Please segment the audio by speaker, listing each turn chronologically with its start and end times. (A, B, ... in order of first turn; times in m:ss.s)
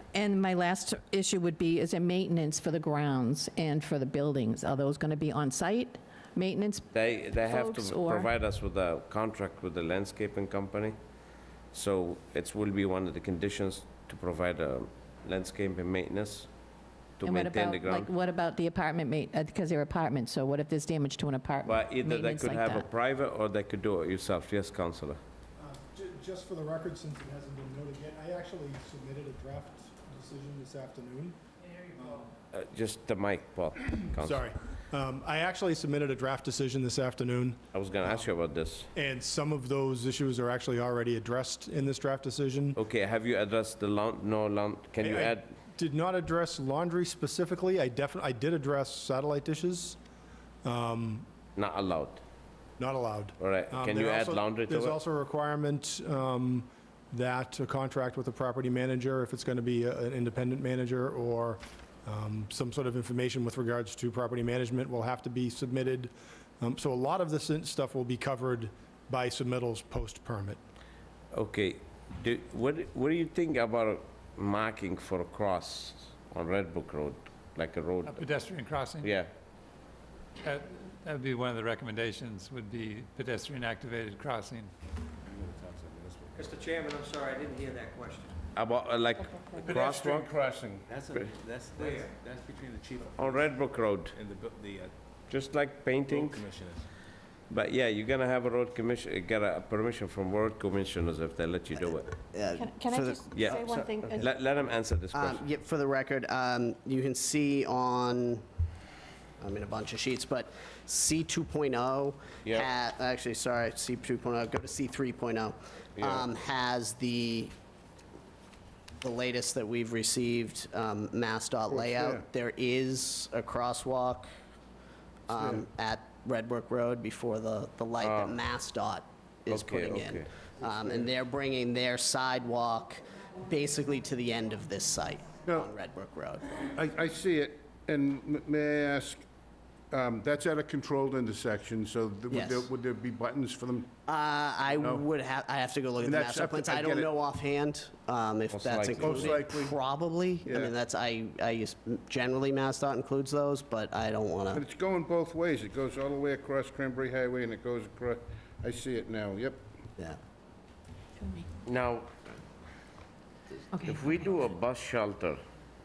0:00.1-0:08.3 A
0:06.9-0:11.0 B
0:11.7-0:16.5 B
0:17.2-0:18.1 B
0:17.2-0:22.9 A
0:21.6-0:25.2 B
0:25.6-0:31.4 C
0:32.0-0:32.3 C
0:32.5-0:34.4 B
0:34.1-0:38.3 C
0:37.7-0:38.9 B
0:38.9-0:42.8 C
0:42.8-0:45.5 B
0:45.0-0:50.0 C
0:50.6-0:51.3 C
0:51.6-0:52.2 B
0:52.8-1:10.6 C
0:53.4-0:55.0 B
1:11.3-1:18.2 B
1:18.0-1:19.1 D
1:19.0-1:19.3 B
1:20.4-1:24.7 D
1:25.2-1:26.4 E
1:26.4-1:28.4 F
1:28.5-1:30.3 B
1:29.5-1:30.9 G
1:30.9-1:33.6 E
1:31.8-1:32.1 F
1:33.1-1:34.2 B
1:34.1-1:34.9 E
1:35.3-1:36.4 B
1:36.1-1:36.8 E
1:37.5-1:42.1 B
1:41.8-1:44.2 H
1:42.5-1:44.3 A
1:43.3-1:45.4 B
1:45.1-1:48.4 H
1:49.4-1:57.5 H
1:52.4-1:52.7 B
1:56.0-1:56.2 B
1:59.0-2:04.3 H
2:01.7-2:02.2 G
2:05.3-2:16.6 H
2:05.3-2:05.7 G
2:08.0-2:08.4 B
2:09.5-2:10.3 B
2:10.8-2:11.1 G
2:15.4-2:15.8 G
2:16.7-2:19.2 G
2:19.9-2:23.9 G
2:22.3-2:22.7 H
2:24.1-2:34.6 H
2:24.7-2:25.1 G
2:26.0-2:27.1 G
2:28.5-2:29.3 B
2:28.8-2:29.8 G
2:30.4-2:30.7 G
2:34.5-2:39.6 G
2:41.2-2:41.5 A
2:41.6-2:42.1 B
2:43.7-2:44.3 A
2:43.8-2:45.4 B